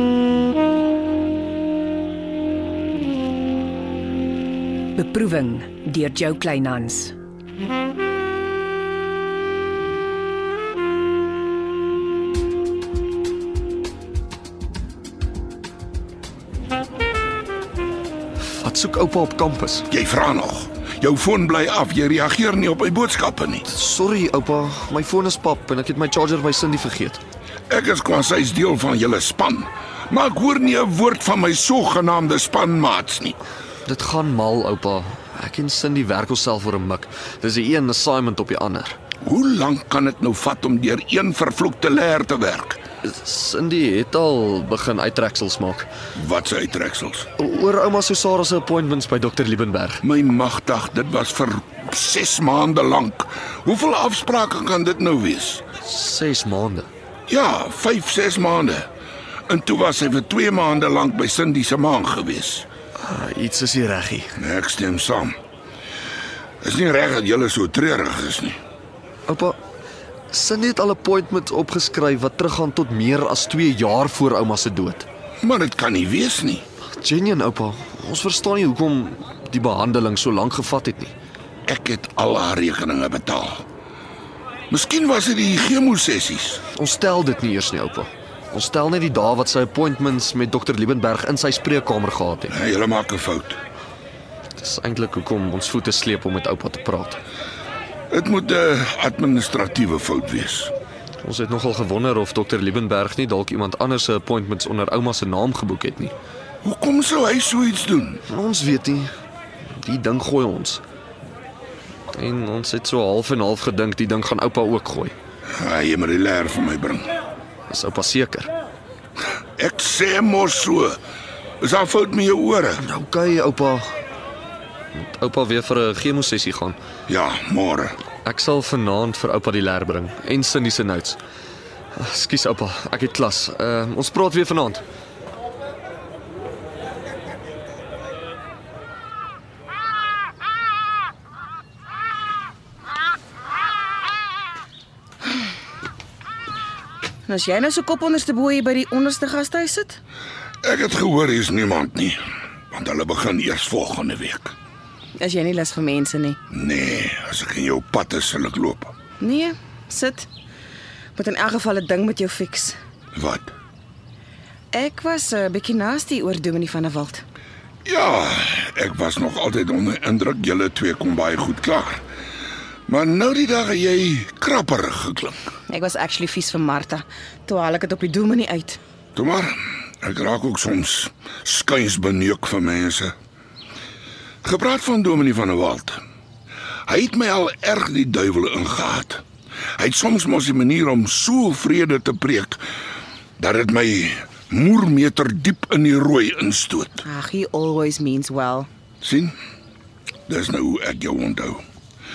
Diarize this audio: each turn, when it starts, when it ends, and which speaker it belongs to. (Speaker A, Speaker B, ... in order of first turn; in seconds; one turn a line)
Speaker A: 4.9-7.1
Speaker B: 18.6-19.9
Speaker C: 19.9-23.6
Speaker B: 23.7-27.2
Speaker C: 27.7-33.4
Speaker B: 33.9-39.0
Speaker C: 39.2-42.8
Speaker B: 43.0-45.9
Speaker C: 46.1-47.3
Speaker B: 47.4-50.0
Speaker C: 50.0-55.6
Speaker B: 55.8-56.9
Speaker C: 57.3-58.9
Speaker C: 59.5-62.7
Speaker B: 63.0-64.4
Speaker C: 64.4-65.3
Speaker C: 66.6-68.6
Speaker B: 69.3-69.6
Speaker B: 70.3-75.0
Speaker C: 75.4-76.6
Speaker B: 76.8-81.1
Speaker C: 81.7-83.6
Speaker C: 84.7-86.6
Speaker B: 86.7-92.5
Speaker C: 92.5-93.6
Speaker B: 94.6-97.2
Speaker C: 98.1-100.7
Speaker B: 101.2-106.1
Speaker C: 106.6-108.2
Speaker B: 108.3-109.1
Speaker B: 109.8-110.8
Speaker B: 112.1-115.1
Speaker C: 115.5-117.1
Speaker B: 117.7-118.5
Speaker C: 119.6-121.0
Speaker C: 121.6-122.8
Speaker B: 122.8-123.8
Speaker B: 125.0-126.8
Speaker C: 127.1-128.0
Speaker B: 128.2-131.2
Speaker B: 131.9-134.8
Speaker D: 147.3-150.0
Speaker C: 150.6-152.2
Speaker C: 152.7-154.5
Speaker D: 155.2-156.4
Speaker C: 156.5-158.9
Speaker D: 159.2-160.3
Speaker D: 161.2-162.8
Speaker C: 163.1-163.5
Speaker D: 164.7-167.2
Speaker C: 167.8-172.0
Speaker C: 172.9-175.3
Speaker D: 175.7-178.8
Speaker C: 179.2-183.1
Speaker C: 184.4-186.0
Speaker C: 186.9-189.2
Speaker C: 189.8-192.6
Speaker C: 193.4-197.0
Speaker D: 197.0-198.7
Speaker C: 199.0-199.3
Speaker C: 200.3-201.6